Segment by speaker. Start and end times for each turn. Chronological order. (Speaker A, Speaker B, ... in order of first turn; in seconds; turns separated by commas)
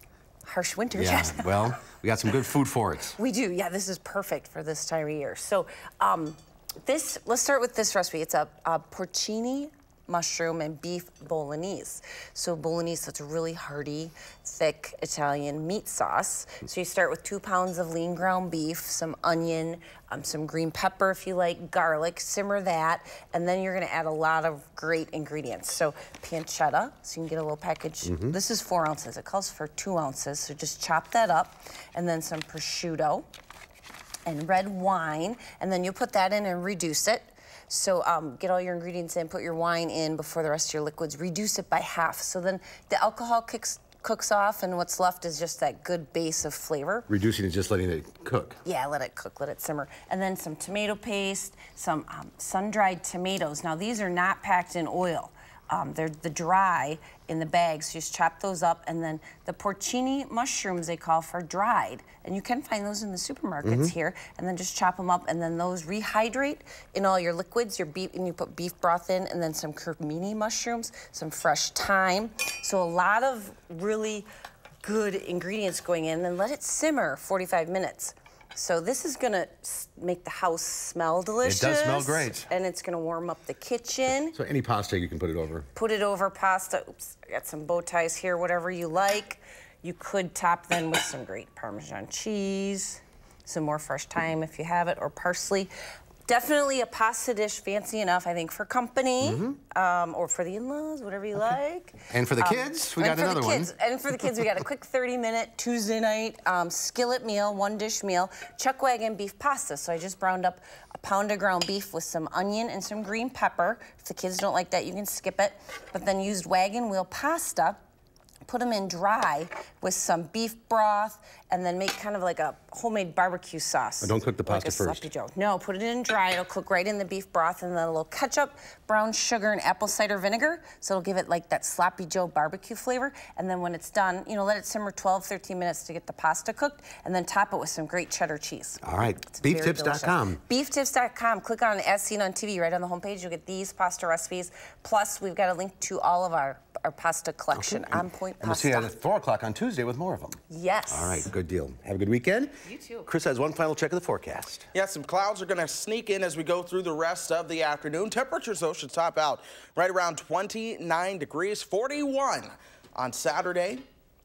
Speaker A: 0.5-1.7, Speaker B: 0.9-3.2, Speaker A: 3.2-33.3, Speaker B: 28.1-28.4, Speaker A: 34.3-47.1, Speaker B: 47.1-48.6, Speaker A: 48.6-74.3, Speaker B: 63.6-63.9, Speaker A: 74.8-84.3, Speaker B: 81.4-82.5, Speaker B: 84.3-85.7, Speaker A: 85.8-95.7, Speaker A: 96.3-117.8, Speaker B: 99.2-99.6, Speaker B: 102.1-103.7, Speaker A: 118.5-148.9, Speaker B: 124.0-125.1, Speaker B: 138.8-140.4, Speaker B: 147.5-150.4, Speaker A: 150.5-151.3, Speaker B: 150.9-154.7, Speaker C: 154.7-163.8